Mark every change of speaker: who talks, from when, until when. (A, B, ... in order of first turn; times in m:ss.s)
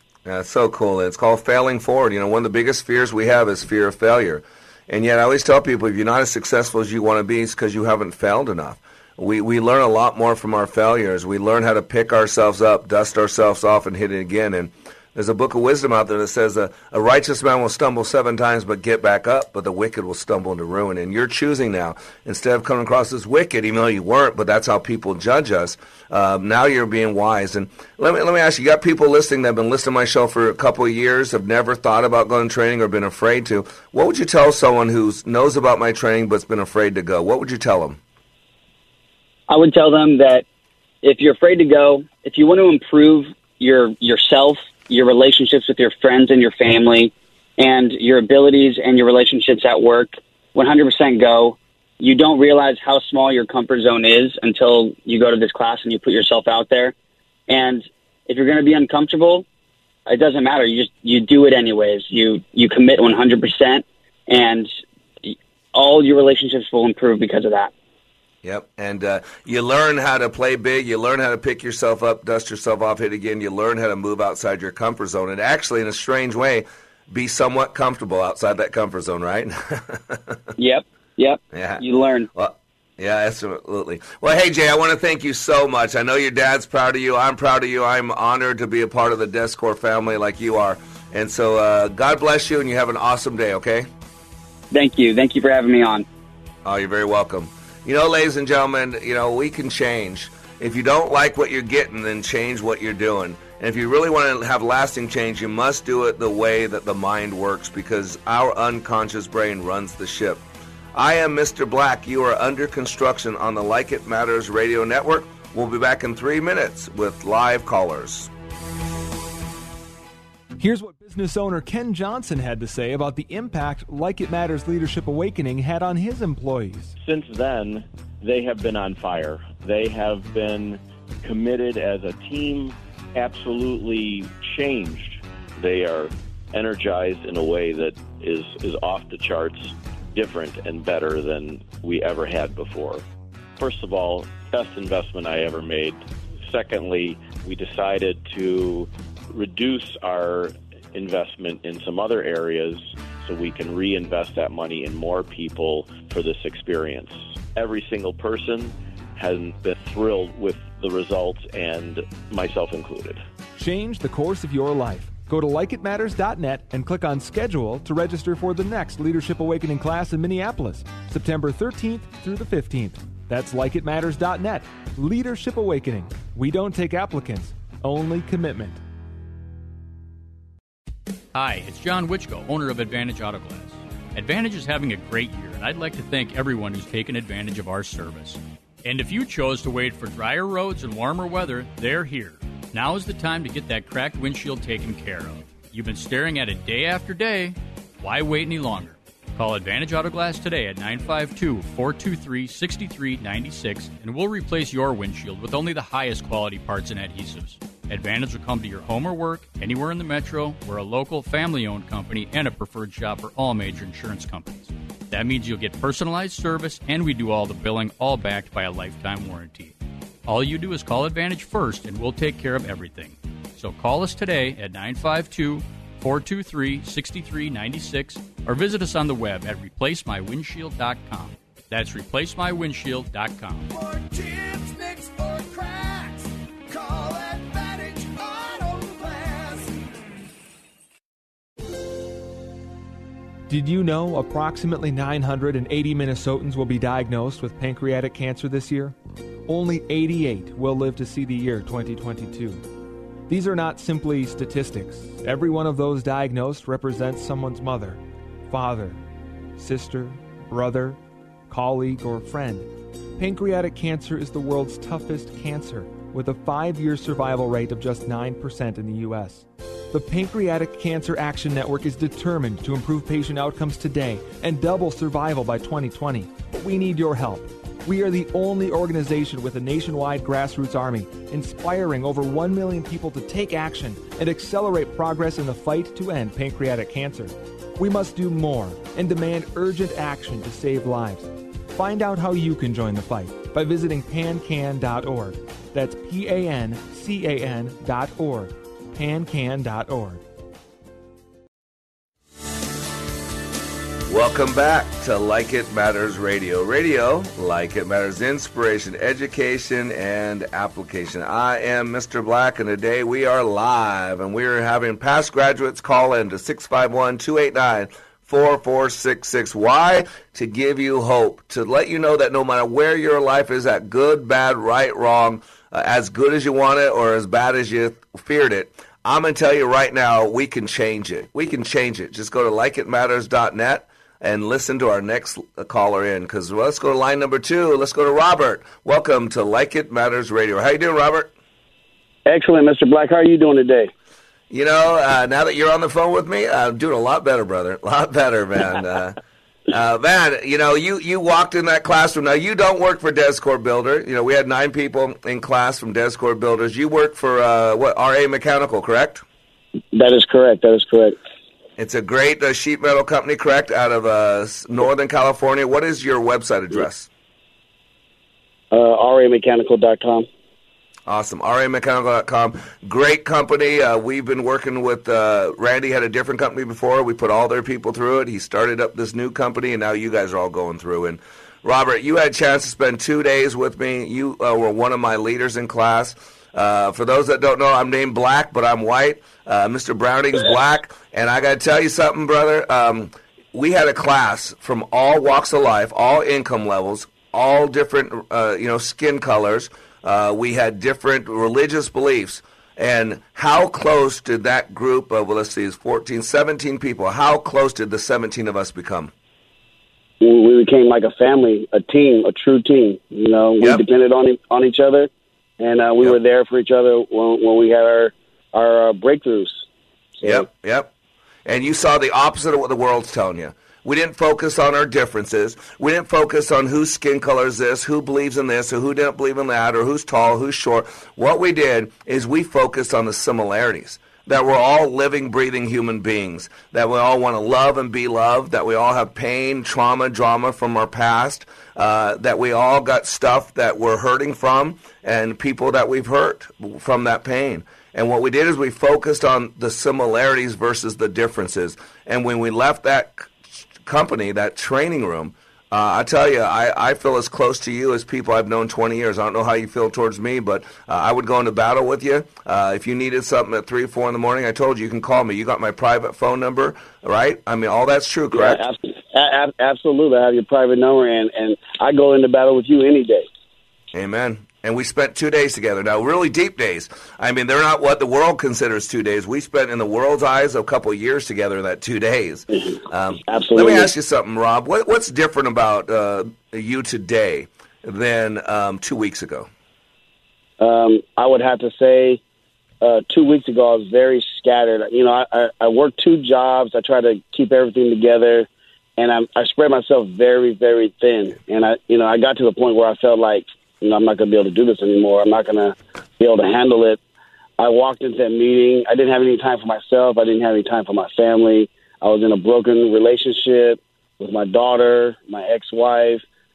0:00.2-0:38.0 A
0:39.5-0:40.4 B
0:41.0-0:56.9 B
0:57.5-0:59.4 B
1:00.1-1:04.7 B
1:05.2-1:07.7 B
1:08.4-1:20.4 A
1:20.6-1:22.3 B
1:21.5-1:21.8 A
1:22.3-1:33.9 A
1:34.7-1:36.0 B
1:36.6-1:58.3 A
2:00.6-2:06.9 C
2:07.0-2:23.0 D
2:23.6-2:43.2 D
2:43.6-2:58.8 C
3:01.3-3:39.7 E
3:40.2-3:53.7 E
3:53.7-3:59.8 F
4:03.5-4:08.9 C
4:09.5-4:12.6 C
4:13.3-4:19.0 C
4:19.6-4:21.0 C
4:21.5-5:00.2 C
5:04.1-5:41.3 A
5:42.3-5:43.9 G
5:44.5-5:49.2 A
5:49.7-5:59.2 A
5:59.9-6:01.2 G
6:01.8-6:07.1 A
6:08.7-6:10.3 G
6:11.1-6:49.1 A
6:50.2-6:55.1 G
6:55.6-6:59.6 G
7:00.2-7:00.5 G
7:00.2-7:00.9 A
7:01.4-7:48.6 A
7:48.3-7:53.3 G
7:53.9-8:09.5 A
8:02.5-8:03.9 G
8:10.6-8:12.2 G
8:12.8-8:27.0 G
8:27.6-8:36.2 G